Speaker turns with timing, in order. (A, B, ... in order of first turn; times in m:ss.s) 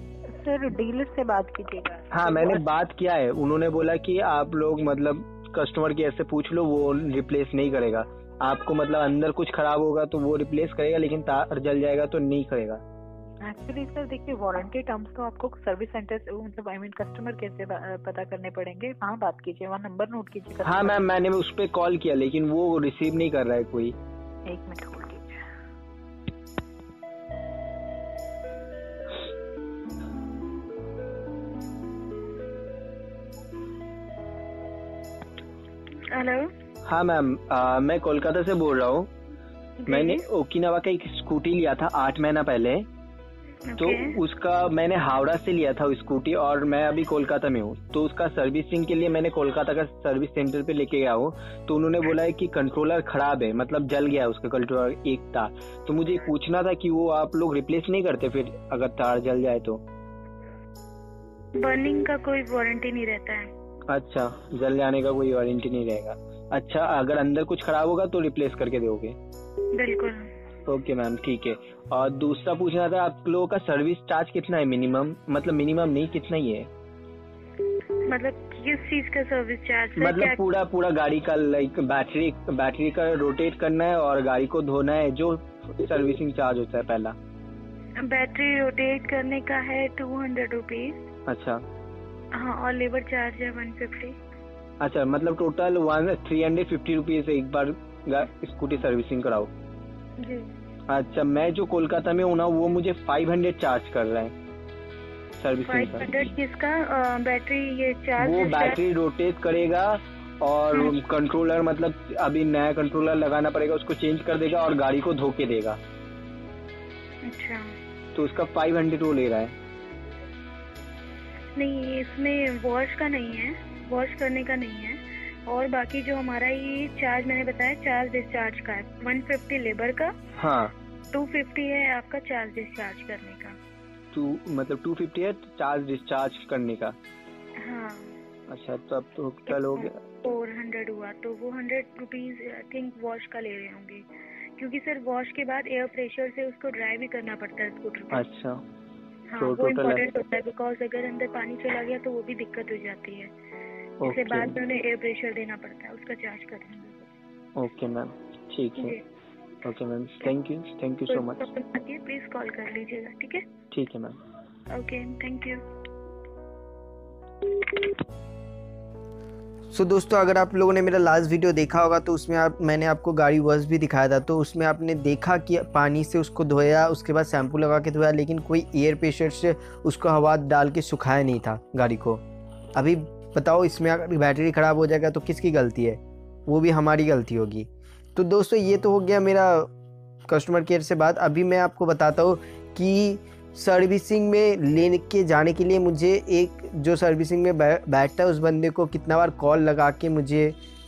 0:00.3-0:02.7 A
0:02.1-0:12.8 B
0:13.5-0:21.0 A
0:20.6-0:24.0 B
0:24.5-0:25.4 A
0:36.1-0:36.5 C
0:36.8-0:39.1 B
0:39.8-0:40.2 C
0:39.9-0:42.9 B
0:43.7-0:44.2 C
0:43.8-0:59.8 B
1:01.6-1:03.5 C
1:03.9-1:09.2 B
1:09.7-1:10.3 C
1:10.7-1:16.7 B
1:18.1-1:20.4 C
1:20.0-1:27.2 B
1:28.0-1:31.0 C
1:31.3-1:31.6 B
1:32.4-1:34.2 C
1:34.8-1:39.5 B
1:40.2-1:40.5 C
1:40.9-1:44.3 B
1:45.4-1:46.3 B
1:45.7-1:48.8 C
1:48.2-1:55.8 B
1:50.7-1:51.0 C
1:57.2-1:57.7 C
1:58.2-1:59.5 B
2:01.6-2:10.1 C
2:10.4-2:10.7 B
2:11.1-2:13.6 C
2:14.1-2:17.0 B
2:17.6-2:18.2 C
2:18.5-2:19.9 B
2:19.5-2:24.0 C
2:24.6-2:28.2 C
2:28.1-2:28.6 B
2:29.3-2:33.3 C
2:29.4-2:30.0 B
2:34.0-2:34.5 B
2:34.0-2:37.1 C
2:37.6-2:39.0 B
2:38.8-2:39.0 C
2:39.6-2:41.4 B
2:41.1-2:43.4 C
2:43.7-2:44.2 B
2:44.7-2:45.6 C
2:47.6-2:47.9 C
2:49.7-3:02.2 D
3:02.8-3:09.7 D
3:10.3-3:20.6 D